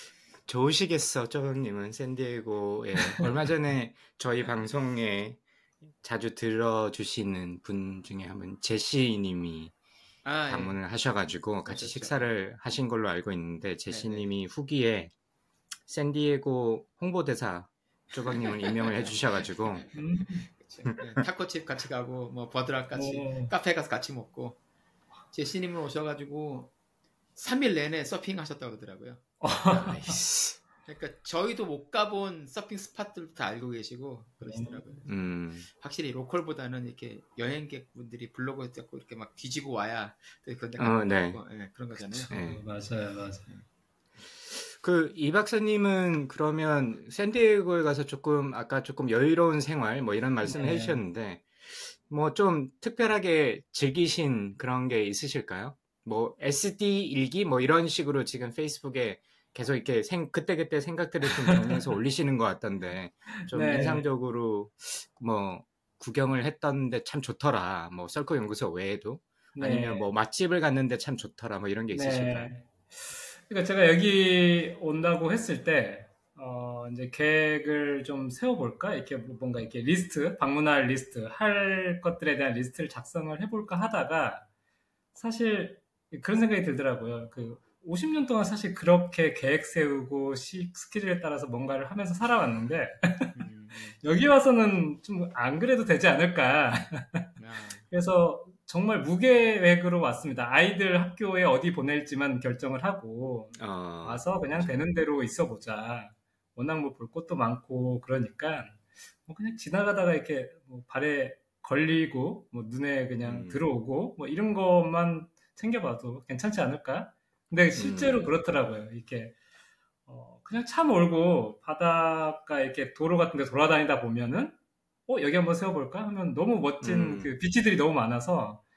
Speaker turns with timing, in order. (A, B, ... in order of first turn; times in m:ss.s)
0:00.5-0:05.4 A
0:06.0-0:09.7 A
0:10.2-0:10.8 B
0:10.5-0:15.1 A
0:11.7-0:12.2 B
0:13.9-0:14.3 B
0:15.9-0:19.9 A
0:18.2-0:24.6 B
0:19.9-0:20.5 C
0:20.8-0:21.2 A
0:22.9-0:23.5 C
0:25.3-0:26.7 B
0:27.4-0:29.2 B
0:29.4-0:30.2 C
0:29.7-0:30.6 A
0:30.9-0:35.1 B
0:34.4-0:34.8 C
0:35.1-0:35.7 A
0:35.7-0:42.3 B
0:40.8-0:41.4 A
0:42.0-0:43.5 C
0:42.3-0:42.6 A
0:44.5-1:12.5 A
0:50.5-0:51.0 B
1:01.4-1:01.8 C
1:03.4-1:04.1 C
1:09.6-1:10.1 C
1:11.9-1:24.5 C
1:25.2-1:33.3 C
1:33.4-1:34.0 B
1:34.0-1:37.3 C
1:37.4-1:37.8 B
1:37.9-1:59.4 C
1:43.6-1:44.7 A
1:53.2-1:53.7 A
1:57.8-1:58.3 A
2:00.1-2:08.6 C
2:06.8-2:07.4 A